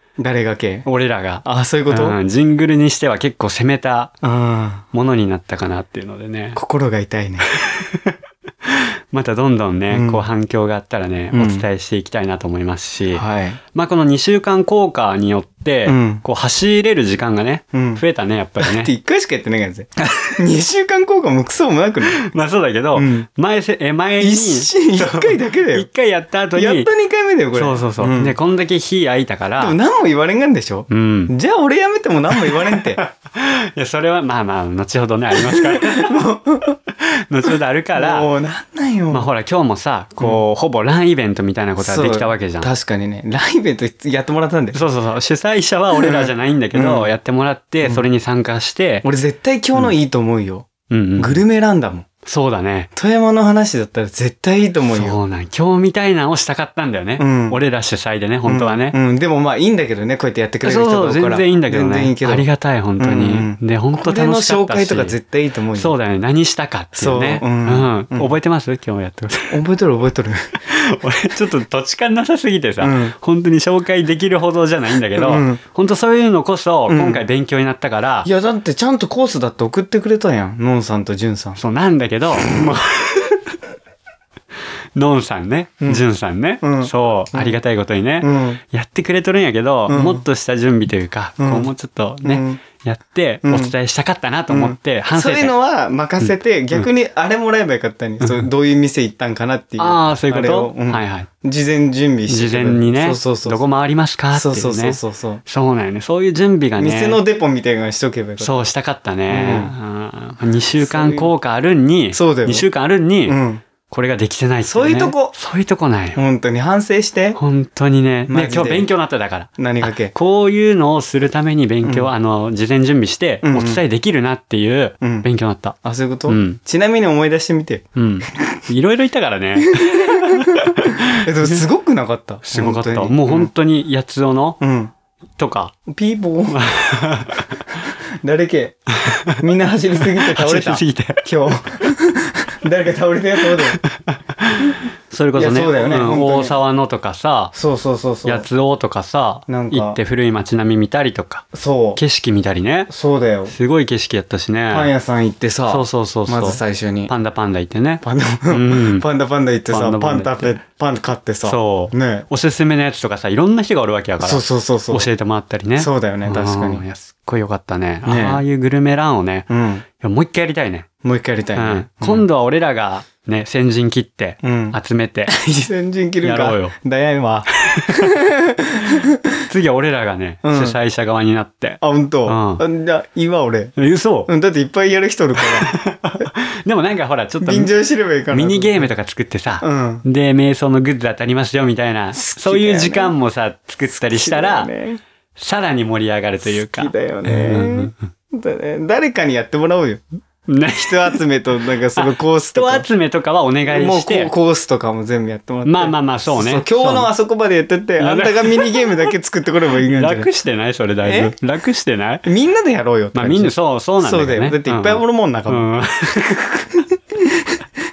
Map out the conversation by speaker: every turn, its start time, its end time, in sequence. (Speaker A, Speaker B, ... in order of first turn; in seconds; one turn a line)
Speaker A: 0.2-0.9
Speaker B: 0.8-4.2
Speaker A: 1.4-2.2
Speaker A: 4.2-4.9
Speaker B: 4.9-6.6
Speaker A: 6.5-7.5
Speaker B: 7.5-18.9
Speaker A: 9.9-10.2
Speaker A: 11.3-11.7
Speaker A: 13.1-13.6
Speaker A: 15.9-16.2
Speaker A: 17.7-18.0
Speaker A: 18.6-22.2
Speaker B: 22.1-26.9
Speaker A: 22.9-23.3
Speaker A: 24.2-25.9
Speaker A: 26.5-28.4
Speaker B: 27.5-29.8
Speaker A: 29.6-33.0
Speaker B: 30.9-31.3
Speaker B: 32.6-36.3
Speaker A: 35.4-36.8
Speaker B: 36.9-38.3
Speaker A: 38.0-39.3
Speaker B: 39.1-42.7
Speaker A: 41.8-44.8
Speaker B: 44.7-49.1
Speaker A: 45.9-47.1
Speaker A: 49.0-52.1
Speaker B: 50.9-51.4
Speaker B: 52.2-52.9
Speaker A: 53.0-55.2
Speaker B: 54.9-59.0
Speaker A: 57.2-57.6
Speaker A: 58.5-66.0
Speaker B: 60.6-65.2
Speaker B: 65.8-69.6
Speaker A: 67.0-68.3
Speaker A: 69.5-70.5
Speaker B: 70.6-78.3
Speaker A: 72.8-73.2
Speaker A: 75.2-75.6
Speaker A: 76.9-77.2
Speaker A: 78.2-81.6
Speaker B: 81.6-83.6
Speaker B: 85.0-95.5
Speaker A: 86.6-87.6
Speaker A: 88.2-88.6
Speaker A: 89.9-90.2
Speaker A: 91.4-91.7
Speaker A: 92.2-92.6
Speaker A: 93.4-93.7
Speaker A: 94.5-103.6
Speaker B: 99.8-101.3
Speaker B: 102.3-107.2
Speaker A: 104.3-105.4
Speaker A: 106.8-108.6
Speaker B: 108.4-116.2
Speaker A: 109.3-109.7
Speaker A: 110.8-111.3
Speaker A: 112.1-112.7
Speaker A: 113.3-113.6
Speaker A: 114.7-115.3
Speaker A: 116.2-117.4
Speaker B: 117.3-125.8
Speaker A: 118.3-118.9
Speaker A: 119.6-120.1
Speaker A: 121.8-122.1
Speaker A: 123.4-123.8
Speaker A: 125.0-125.3
Speaker A: 125.8-128.6
Speaker B: 126.3-126.6
Speaker B: 128.0-131.6
Speaker A: 129.7-133.5
Speaker B: 132.4-134.6
Speaker A: 134.6-134.9
Speaker B: 135.4-135.8
Speaker A: 135.9-136.6
Speaker B: 136.5-137.6
Speaker A: 138.0-138.8
Speaker B: 139.0-139.4
Speaker A: 139.3-143.8
Speaker B: 140.2-141.3
Speaker B: 143.7-147.5
Speaker A: 145.4-146.6
Speaker A: 147.5-148.5
Speaker B: 148.2-152.9
Speaker A: 149.5-150.0
Speaker A: 151.5-152.0
Speaker A: 152.9-153.5
Speaker B: 153.5-154.9
Speaker A: 154.7-157.1
Speaker B: 155.7-159.1
Speaker A: 158.0-162.3
Speaker B: 159.7-160.6
Speaker B: 161.4-170.9
Speaker A: 164.2-165.1
Speaker A: 165.8-166.8
Speaker A: 168.0-168.4
Speaker A: 169.5-169.8
Speaker A: 171.0-172.3
Speaker B: 171.6-175.3
Speaker A: 174.4-179.4
Speaker B: 176.2-176.8
Speaker B: 177.6-178.0
Speaker B: 178.8-182.6
Speaker A: 180.4-180.8
Speaker A: 181.8-183.8
Speaker B: 183.8-184.3
Speaker A: 184.3-186.2
Speaker B: 185.4-187.7
Speaker A: 187.4-188.9
Speaker B: 188.3-194.7
Speaker A: 189.6-190.1
Speaker A: 192.1-193.2
Speaker A: 193.9-195.0
Speaker B: 195.3-198.1
Speaker A: 196.4-200.2
Speaker B: 200.5-201.2
Speaker A: 200.7-202.9
Speaker B: 202.0-204.3
Speaker A: 203.7-210.3
Speaker B: 205.7-207.1
Speaker B: 208.0-209.1
Speaker B: 209.8-212.3
Speaker A: 211.0-211.4
Speaker A: 212.2-217.6
Speaker B: 213.1-216.6